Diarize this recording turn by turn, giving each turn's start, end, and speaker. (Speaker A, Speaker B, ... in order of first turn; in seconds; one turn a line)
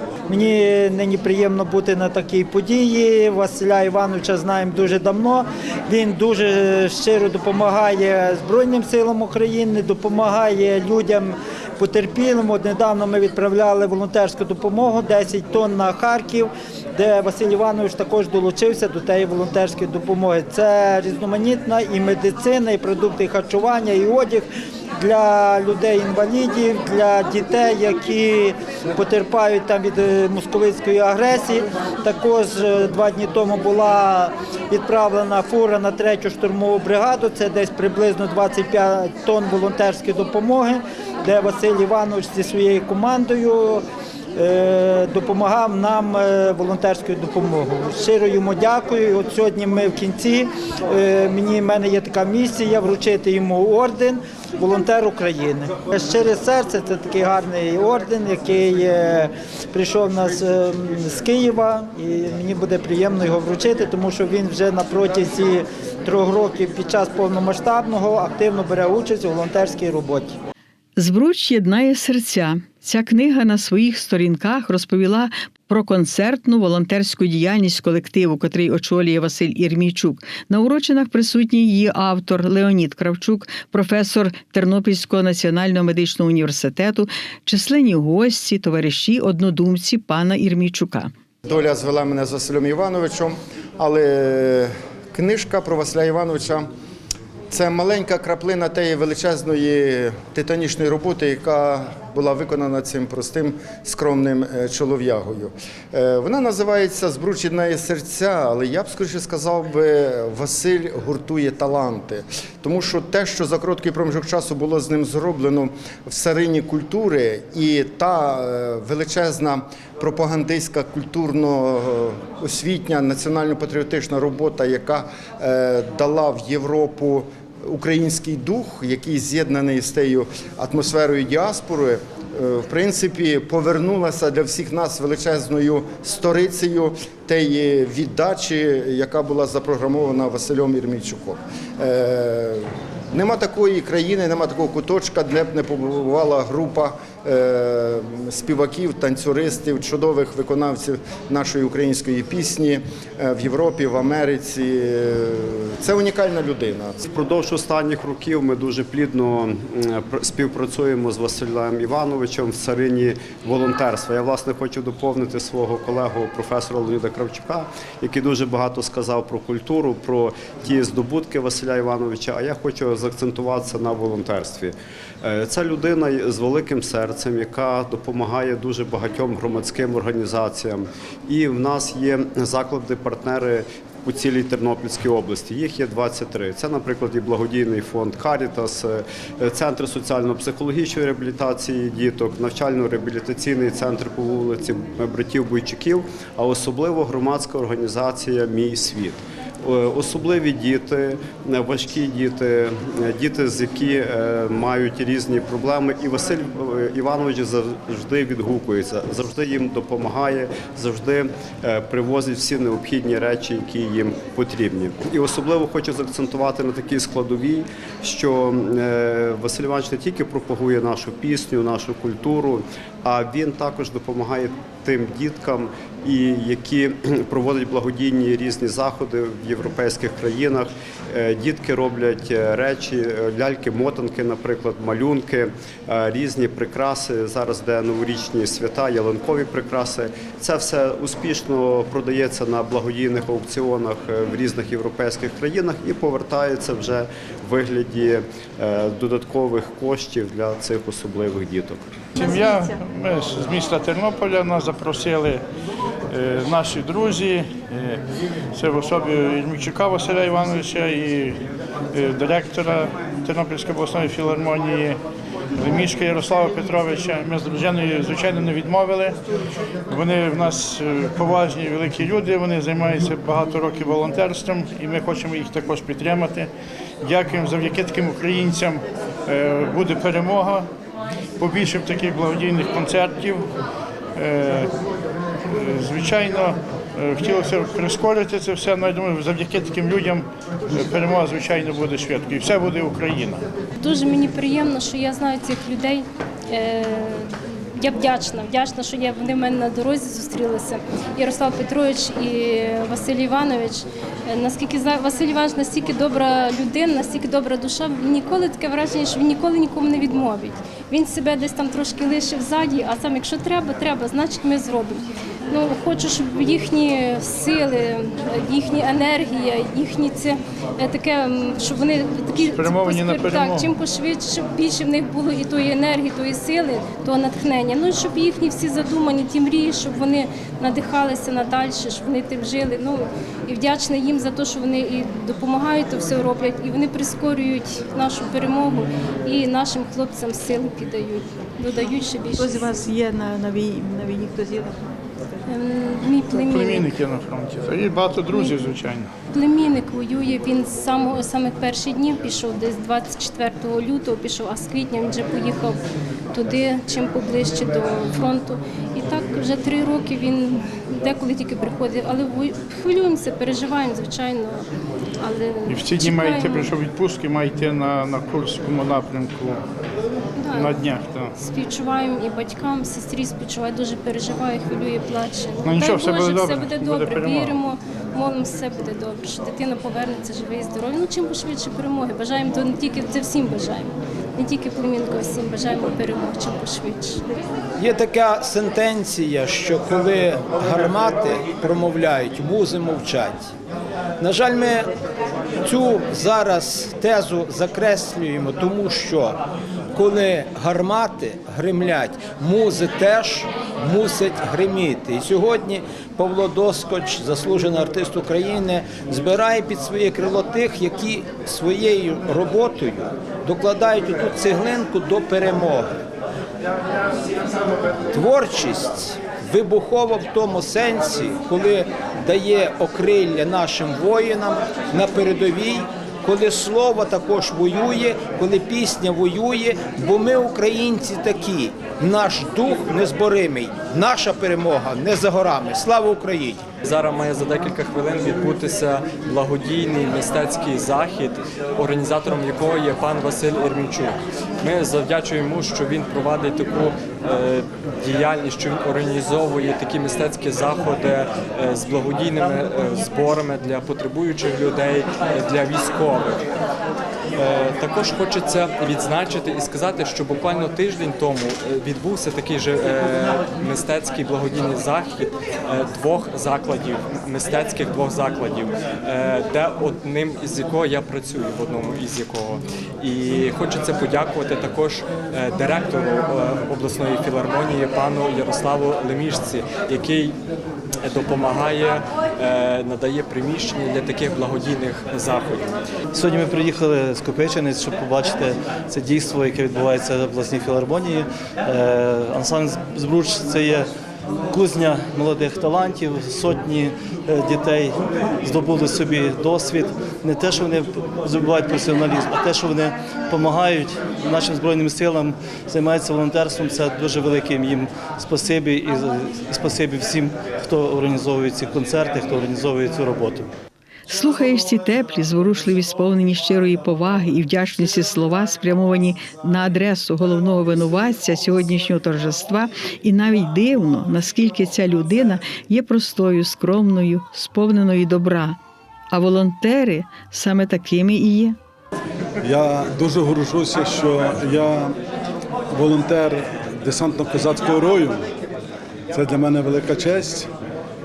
Speaker A: 0.3-24.5
Speaker A: 25.0-70.4
Speaker B: 71.0-91.1
Speaker C: 91.5-96.7
Speaker C: 97.5-157.0
Speaker D: 157.1-251.8
Speaker E: 252.2-255.4
Speaker E: 256.1-261.4
Speaker E: 261.9-265.0
Speaker E: 265.6-269.2
Speaker E: 269.9-276.5
Speaker E: 277.0-280.7
Speaker E: 281.4-283.5
Speaker E: 284.1-284.7
Speaker E: 285.4-293.4
Speaker F: 293.8-342.8
Speaker E: 322.5-323.7
Speaker B: 341.8-345.0
Speaker F: 345.5-346.9
Speaker E: 346.4-349.1
Speaker F: 348.3-348.6
Speaker F: 349.3-355.8
Speaker F: 356.3-364.7
Speaker F: 365.2-366.7
Speaker E: 365.7-369.6
Speaker F: 370.4-370.8
Speaker E: 370.5-371.3
Speaker F: 371.4-387.2
Speaker E: 375.6-377.6
Speaker G: 387.8-393.5
Speaker G: 394.2-394.9
Speaker G: 395.6-399.4
Speaker G: 399.9-415.9
Speaker G: 418.1-436.6
Speaker H: 436.8-456.4
Speaker H: 457.4-480.4
Speaker H: 481.0-485.7
Speaker I: 486.1-493.9
Speaker I: 494.5-513.5
Speaker B: 514.1-528.6
Speaker B: 529.1-531.6
Speaker J: 532.4-534.9
Speaker J: 535.7-538.2
Speaker J: 539.1-540.5